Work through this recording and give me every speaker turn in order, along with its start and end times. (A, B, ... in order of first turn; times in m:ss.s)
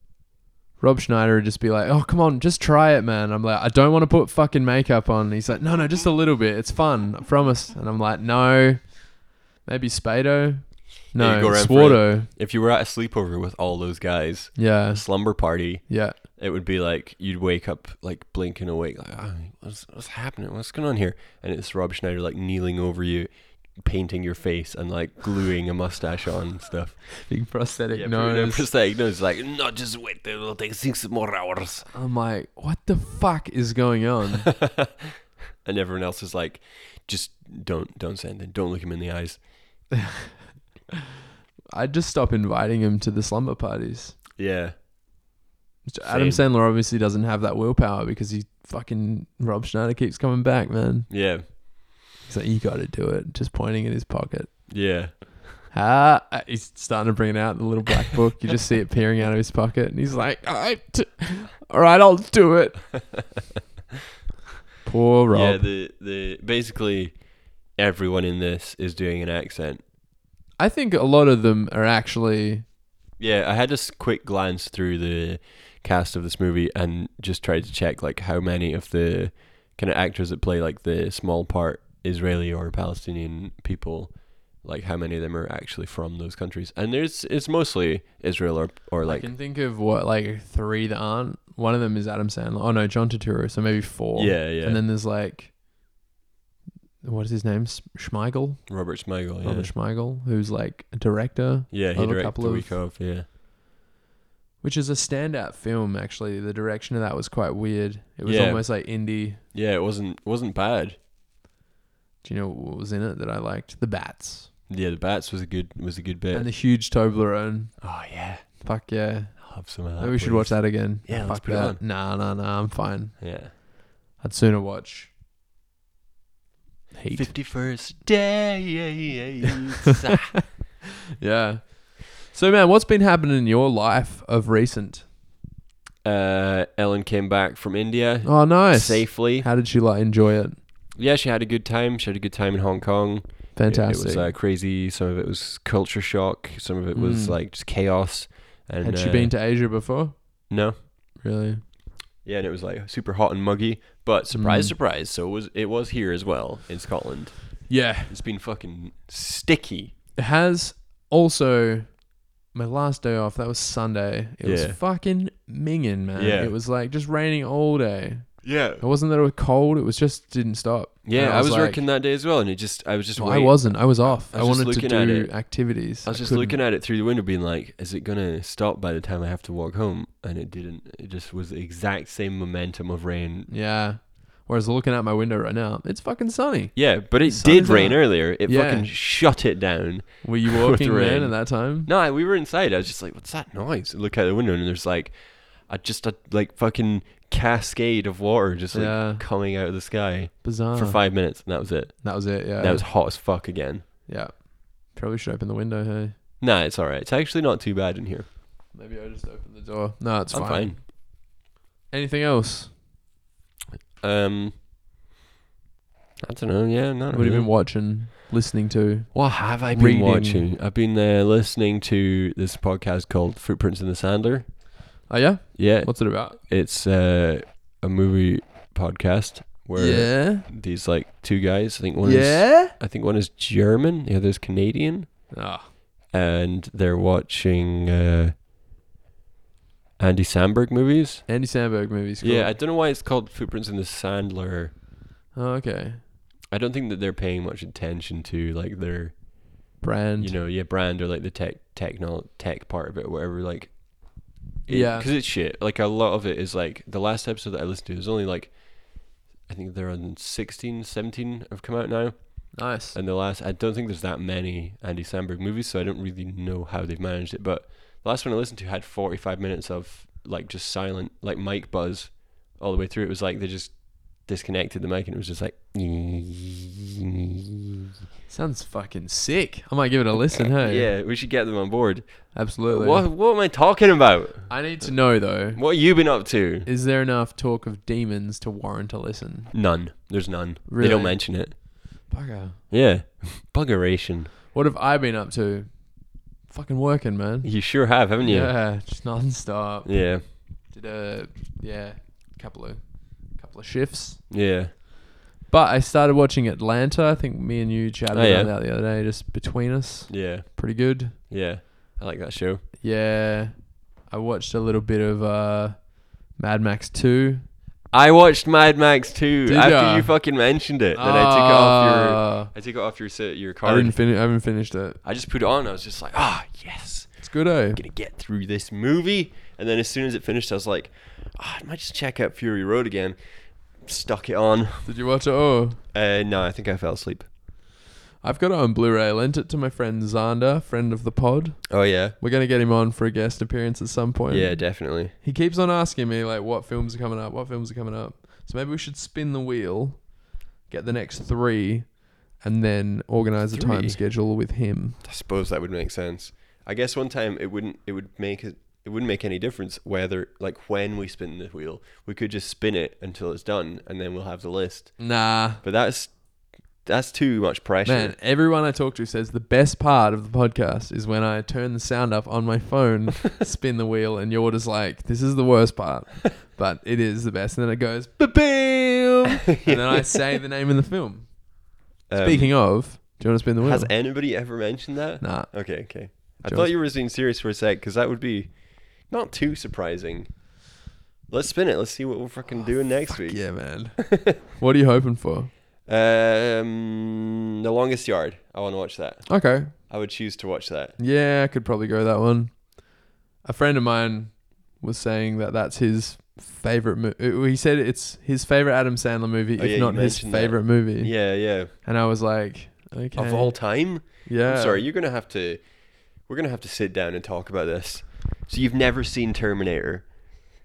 0:00.8-0:12.3 A
0:11.1-0:27.2 B
0:14.6-0:15.0 A
0:15.9-0:16.2 A
0:27.3-0:28.7 A
0:27.9-0:31.9 B
0:31.9-0:34.5 A
0:34.4-0:39.4 B
0:41.7-0:44.2 A
0:44.4-0:44.7 B
0:45.8-0:51.5 A
0:46.1-0:46.4 B
0:51.1-0:51.5 B
0:52.2-0:54.7 A
0:54.7-0:55.5 B
0:55.7-1:02.9 A
1:04.8-1:05.7 A
1:05.3-1:07.2 B
1:07.8-1:09.8 B
1:10.6-1:12.6 A
1:13.2-1:29.3 B
1:29.0-1:35.5 A
1:34.1-1:34.8 B
1:37.0-1:38.8 A
1:38.7-1:39.7 B
1:39.4-1:42.8 A
1:41.7-1:43.2 B
1:44.6-1:49.4 A
1:48.2-1:48.7 B
1:49.5-1:51.0 B
1:52.2-1:54.5 A
1:54.7-1:56.5 B
1:56.3-2:05.1 A
1:57.8-1:58.6 B
1:59.4-2:01.8 B
2:03.2-2:03.5 B
2:06.9-2:07.3 A
2:07.1-2:10.4 B
2:11.2-2:15.1 A
2:16.0-2:19.5 B
2:18.2-2:20.6 A
2:20.9-2:29.3 B
2:23.6-2:24.3 A
2:26.9-2:27.4 A
2:28.8-2:30.5 A
2:30.5-2:30.8 B
2:31.2-2:31.6 A
2:32.2-2:39.9 B
2:34.3-2:34.8 A
2:37.7-2:38.2 A
2:40.2-2:51.8 A
2:44.4-2:44.8 B
2:46.2-2:46.5 B
2:48.4-2:48.8 B
2:51.0-3:03.5 B
2:53.2-2:56.6 A
3:03.5-3:08.9 A
3:06.7-3:23.8 B
3:10.2-3:11.9 A
3:18.7-3:19.2 A
3:20.4-3:21.3 A
3:22.0-3:22.9 A
3:24.1-3:26.1 A
3:26.4-3:28.3 B
3:28.7-3:31.3 A
3:30.3-3:30.8 B
3:31.9-3:32.8 A
3:34.0-3:34.5 B
3:36.2-3:37.5 B
3:37.1-3:40.5 A
3:39.1-3:44.5 B
3:45.1-3:46.4 A
3:45.5-3:55.3 B
3:49.8-3:50.5 A
3:52.0-3:52.7 A
3:55.3-3:55.7 A
3:56.1-3:58.3 B
4:00.0-4:01.3 B
4:01.3-4:02.5 A
4:02.2-4:04.7 B
4:05.3-4:06.0 A
4:06.5-4:09.2 B
4:09.8-4:10.3 A
4:10.2-4:36.9 B
4:14.7-4:15.1 A
4:22.5-4:23.0 A
4:38.3-4:40.9 A
4:40.4-4:46.7 B
4:42.3-4:43.0 A
4:44.5-4:45.6 A
4:46.6-4:49.5 A
4:49.5-4:51.6 B
4:50.7-4:52.6 A
4:52.7-4:54.3 B
4:54.5-4:57.5 A
4:57.4-4:58.6 B
4:58.1-5:04.2 A
4:59.8-5:00.2 B
5:04.3-5:04.7 B
5:05.5-5:11.2 A
5:08.1-5:08.5 B
5:10.1-5:10.6 B
5:11.1-5:12.6 B
5:12.8-5:17.4 A
5:17.9-5:24.0 B
5:19.4-5:20.2 A
5:20.9-5:22.5 A
5:23.6-5:25.0 A
5:25.0-5:33.2 B
5:27.2-5:27.8 A
5:33.7-5:34.9 B
5:34.8-5:35.8 A
5:35.9-5:37.3 B
5:38.2-5:55.0 A
5:41.7-5:42.2 B
5:44.3-5:45.1 B
5:53.5-5:54.0 B
5:55.0-6:06.2 B
6:05.0-6:05.6 A
6:06.8-6:08.1 B
6:07.8-6:21.4 A
6:19.5-6:20.0 B
6:22.1-6:22.6 B
6:22.2-6:23.9 A
6:23.6-6:30.5 B
6:25.2-6:25.5 A
6:26.3-6:26.7 A
6:31.3-6:34.4 B
6:33.1-6:35.5 A
6:35.9-6:41.0 B
6:39.3-6:39.7 A
6:41.0-6:42.8 A
6:43.4-6:51.2 A
6:49.6-6:51.7 B
6:51.8-6:54.8 A
6:53.1-6:55.6 B
6:56.2-7:00.0 B